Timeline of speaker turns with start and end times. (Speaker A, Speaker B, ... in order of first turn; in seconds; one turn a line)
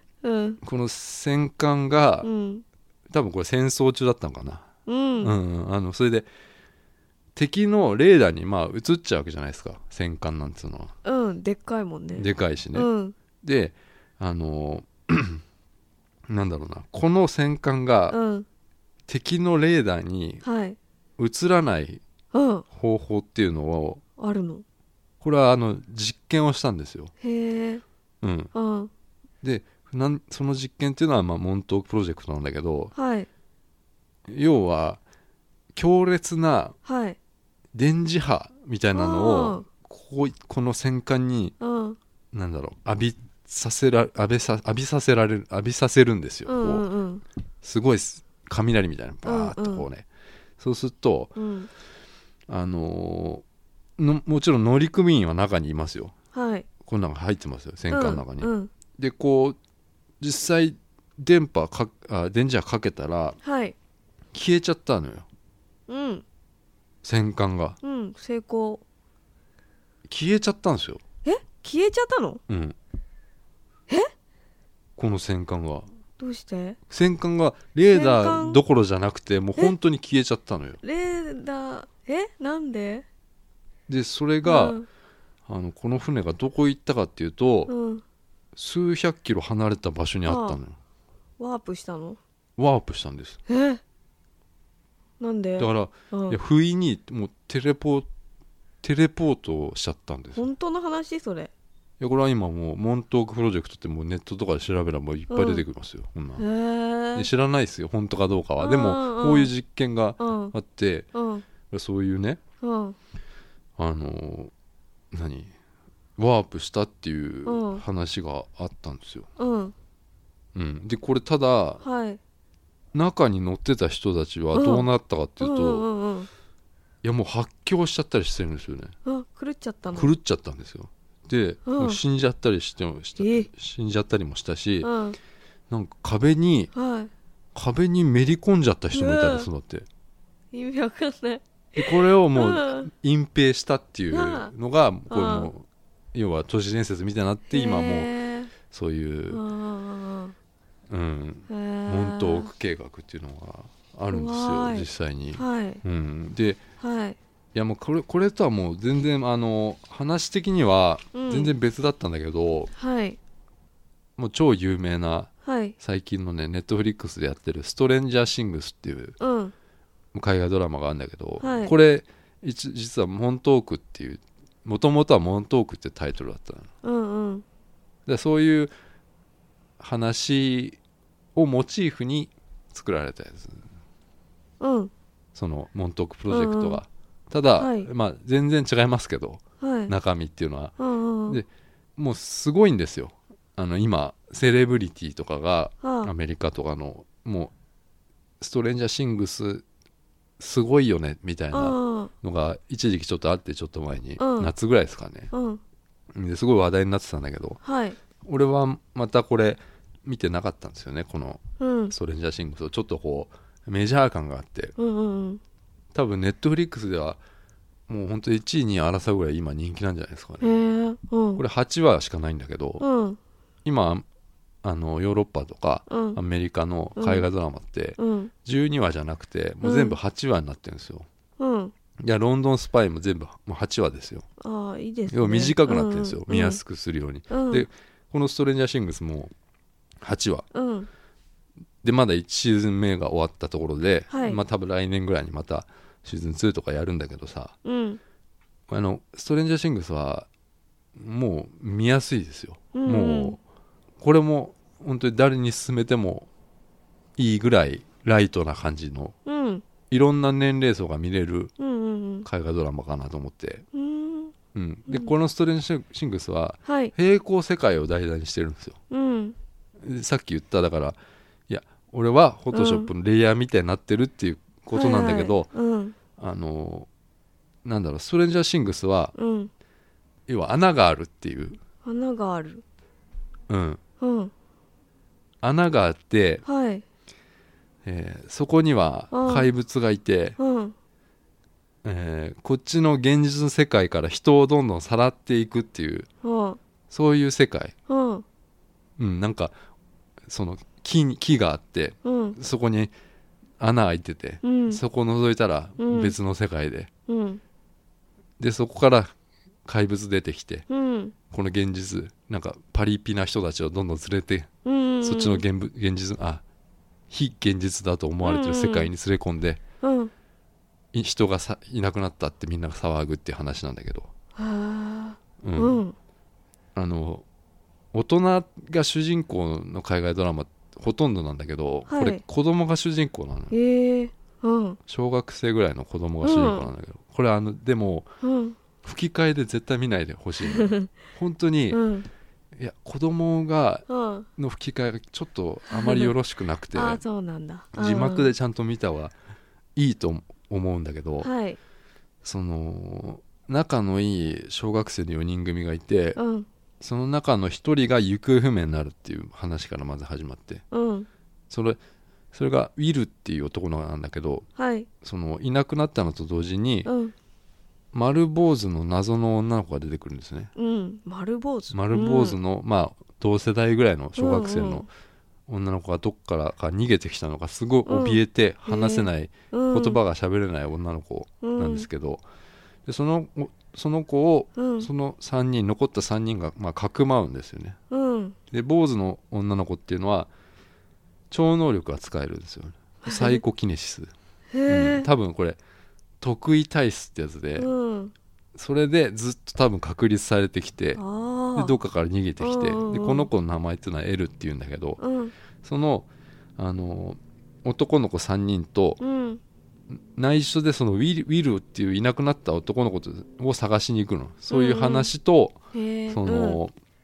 Speaker A: 0.2-0.6
Speaker B: 0.6-2.3
Speaker A: 2.2-2.6
Speaker B: 3.1-4.7
Speaker A: 4.8-5.3
Speaker B: 5.2-6.3
Speaker B: 7.3-10.9
Speaker A: 11.0-13.2
Speaker B: 12.2-15.4
Speaker B: 16.3-18.2
Speaker A: 18.1-18.4
Speaker B: 19.1-20.4
Speaker A: 20.4-20.8
Speaker B: 21.2-22.0
Speaker A: 22.3-22.6
Speaker B: 22.7-24.0
Speaker A: 24.2-24.6
Speaker B: 25.2-27.1
Speaker A: 27.2-27.8
Speaker B: 28.2-28.5
Speaker A: 28.5-28.9
Speaker B: 29.4-32.9
Speaker A: 32.9-33.3
Speaker B: 34.3-35.0
Speaker B: 35.8-36.8
Speaker A: 36.8-37.2
Speaker B: 37.7-41.5
Speaker A: 38.9-39.6
Speaker A: 41.6-42.0
Speaker B: 42.3-46.9
Speaker A: 46.5-47.2
Speaker B: 47.6-50.1
Speaker A: 49.2-49.9
Speaker B: 50.6-51.4
Speaker A: 51.4-51.7
Speaker B: 52.5-53.4
Speaker B: 54.0-56.1
Speaker A: 56.3-56.7
Speaker B: 56.8-59.6
Speaker A: 57.9-58.7
Speaker B: 60.2-63.4
Speaker A: 63.4-63.8
Speaker B: 64.3-65.3
Speaker A: 65.9-66.2
Speaker B: 67.0-67.8
Speaker A: 67.8-68.8
Speaker B: 70.1-71.0
Speaker A: 71.2-72.4
Speaker B: 72.5-72.8
Speaker B: 75.0-75.9
Speaker A: 76.2-76.8
Speaker B: 76.9-80.8
Speaker A: 77.9-78.6
Speaker A: 80.8-83.0
Speaker B: 83.9-84.8
Speaker A: 84.4-84.8
Speaker B: 85.5-87.7
Speaker A: 87.7-88.0
Speaker B: 88.5-90.8
Speaker A: 90.2-90.6
Speaker A: 91.4-92.2
Speaker B: 92.6-93.4
Speaker A: 93.5-93.8
Speaker A: 95.2-96.4
Speaker B: 95.6-98.1
Speaker B: 98.8-100.5
Speaker A: 100.3-101.5
Speaker B: 102.0-106.4
Speaker A: 105.3-105.6
Speaker A: 106.4-107.3
Speaker B: 107.1-111.1
Speaker A: 108.6-109.5
Speaker A: 110.2-110.5
Speaker A: 111.1-111.5
Speaker B: 111.7-112.4
Speaker A: 112.6-113.0
Speaker B: 113.8-114.5
Speaker B: 115.1-115.5
Speaker B: 116.2-119.3
Speaker A: 117.5-117.8
Speaker A: 119.4-119.7
Speaker B: 120.5-121.8
Speaker A: 121.8-122.2
Speaker B: 122.9-125.8
Speaker A: 124.5-124.9
Speaker A: 125.4-126.3
Speaker B: 127.0-128.9
Speaker A: 129.0-130.1
Speaker B: 129.9-134.9
Speaker A: 131.7-132.0
Speaker A: 133.2-133.5
Speaker A: 134.8-135.2
Speaker B: 135.7-136.7
Speaker A: 136.7-137.1
Speaker B: 137.5-139.8
Speaker A: 138.9-139.5
Speaker A: 140.5-142.9
Speaker B: 141.8-148.1
Speaker A: 144.1-144.5
Speaker A: 145.1-145.5
Speaker A: 147.5-148.5
Speaker B: 148.6-149.4
Speaker A: 149.3-150.3
Speaker B: 150.9-156.6
Speaker A: 151.5-152.5
Speaker A: 154.1-155.8
Speaker A: 156.8-157.2
Speaker B: 157.5-162.7
Speaker A: 161.1-161.5
Speaker A: 162.7-163.2
Speaker B: 164.2-169.2
Speaker A: 165.4-165.8
Speaker A: 169.2-169.5
Speaker B: 170.1-176.7
Speaker A: 171.4-171.7
Speaker A: 176.8-177.4
Speaker B: 178.1-178.7
Speaker B: 179.8-180.8
Speaker B: 181.3-183.6
Speaker A: 184.6-184.9
Speaker B: 185.3-190.7
Speaker A: 186.3-186.8
Speaker A: 187.6-187.9
Speaker A: 189.6-189.9
Speaker A: 190.8-191.4
Speaker B: 191.3-197.5
Speaker A: 195.8-196.1
Speaker B: 198.4-199.6
Speaker B: 200.4-205.3
Speaker A: 201.5-202.1
Speaker A: 204.2-204.5
Speaker A: 205.3-205.6
Speaker B: 206.1-207.6
Speaker A: 207.6-208.0
Speaker B: 208.2-214.7
Speaker A: 211.6-211.9
Speaker A: 214.8-215.4
Speaker B: 215.9-217.2
Speaker B: 217.9-220.5
Speaker A: 220.4-221.4
Speaker B: 221.4-222.8
Speaker A: 222.8-223.2
Speaker B: 223.6-224.0
Speaker B: 224.6-231.1
Speaker A: 225.9-226.2
Speaker A: 227.0-227.3
Speaker A: 228.0-228.3
Speaker A: 229.6-230.0
Speaker A: 231.4-231.7
Speaker B: 232.0-234.2
Speaker A: 234.4-236.6
Speaker B: 235.1-239.3
Speaker A: 237.3-237.7
Speaker B: 240.0-240.5
Speaker A: 240.5-240.9
Speaker B: 241.8-247.6
Speaker A: 244.1-244.4
Speaker A: 247.6-248.0
Speaker B: 248.7-250.3
Speaker B: 250.9-253.4
Speaker A: 252.7-253.4
Speaker B: 254.0-256.3
Speaker B: 257.2-259.1
Speaker A: 259.2-259.6
Speaker B: 259.9-261.5
Speaker A: 261.6-262.3
Speaker B: 262.2-263.6
Speaker A: 263.7-264.3
Speaker B: 264.5-268.8
Speaker A: 266.6-266.9
Speaker A: 268.9-269.4
Speaker B: 269.8-271.0
Speaker B: 271.5-275.5
Speaker A: 272.5-272.9
Speaker A: 274.7-275.9
Speaker B: 276.2-276.9
Speaker B: 277.6-279.1
Speaker A: 279.1-279.5
Speaker B: 280.3-281.6
Speaker A: 281.8-282.6
Speaker B: 283.5-283.8
Speaker A: 284.0-284.3
Speaker B: 285.4-286.4
Speaker A: 286.4-286.8
Speaker B: 287.8-290.4
Speaker A: 289.1-289.5
Speaker A: 290.4-290.7
Speaker B: 291.8-296.1
Speaker A: 296.2-296.6
Speaker B: 296.9-297.7
Speaker A: 297.9-298.2
Speaker B: 299.0-299.5
Speaker B: 300.3-302.9
Speaker A: 302.0-302.4
Speaker B: 303.6-306.9
Speaker A: 304.4-304.8
Speaker A: 305.8-306.1
Speaker A: 307.1-307.4
Speaker B: 308.4-309.1
Speaker B: 309.6-310.7
Speaker A: 310.7-311.1
Speaker B: 311.3-314.5
Speaker A: 314.6-315.4
Speaker B: 315.0-316.4
Speaker B: 317.1-319.6
Speaker A: 318.2-318.9
Speaker A: 319.8-320.1
Speaker B: 320.9-324.1
Speaker A: 324.3-325.9
Speaker B: 325.4-325.8
Speaker B: 326.7-327.2
Speaker B: 327.9-333.5
Speaker A: 331.9-332.2
Speaker A: 333.5-334.8
Speaker B: 334.9-338.1
Speaker A: 336.2-336.7
Speaker A: 338.2-338.6
Speaker B: 338.8-341.8
Speaker A: 340.4-340.9
Speaker A: 341.7-342.1
Speaker B: 342.5-347.0
Speaker A: 343.9-344.3
Speaker A: 345.7-346.1
Speaker A: 346.7-348.3
Speaker B: 347.7-349.1
Speaker B: 349.8-351.3
Speaker A: 351.2-351.6
Speaker B: 352.2-356.2
Speaker A: 356.1-356.5
Speaker B: 356.8-360.6
Speaker A: 360.7-361.1
Speaker B: 361.5-361.8
Speaker B: 362.3-364.5
Speaker A: 364.6-364.9
Speaker B: 365.0-366.9
Speaker A: 366.9-367.1
Speaker B: 367.9-370.5
Speaker A: 370.6-372.4
Speaker B: 371.7-374.9
Speaker A: 374.1-374.9
Speaker B: 375.5-382.2
Speaker A: 377.9-380.0
Speaker A: 381.4-381.9
Speaker B: 382.9-387.8
Speaker A: 384.6-384.9
Speaker A: 387.9-388.4
Speaker B: 388.5-390.3
Speaker B: 391.3-394.1
Speaker A: 393.0-393.4
Speaker A: 394.5-395.1
Speaker B: 394.6-395.6
Speaker B: 396.2-397.7
Speaker A: 397.6-398.1
Speaker B: 398.5-401.0
Speaker A: 401.0-401.8
Speaker B: 401.5-405.0
Speaker A: 402.4-403.3
Speaker A: 405.0-405.3
Speaker B: 405.6-409.0
Speaker A: 409.0-409.4
Speaker B: 409.9-415.6
Speaker A: 414.5-415.1
Speaker A: 415.7-416.6
Speaker B: 416.1-416.7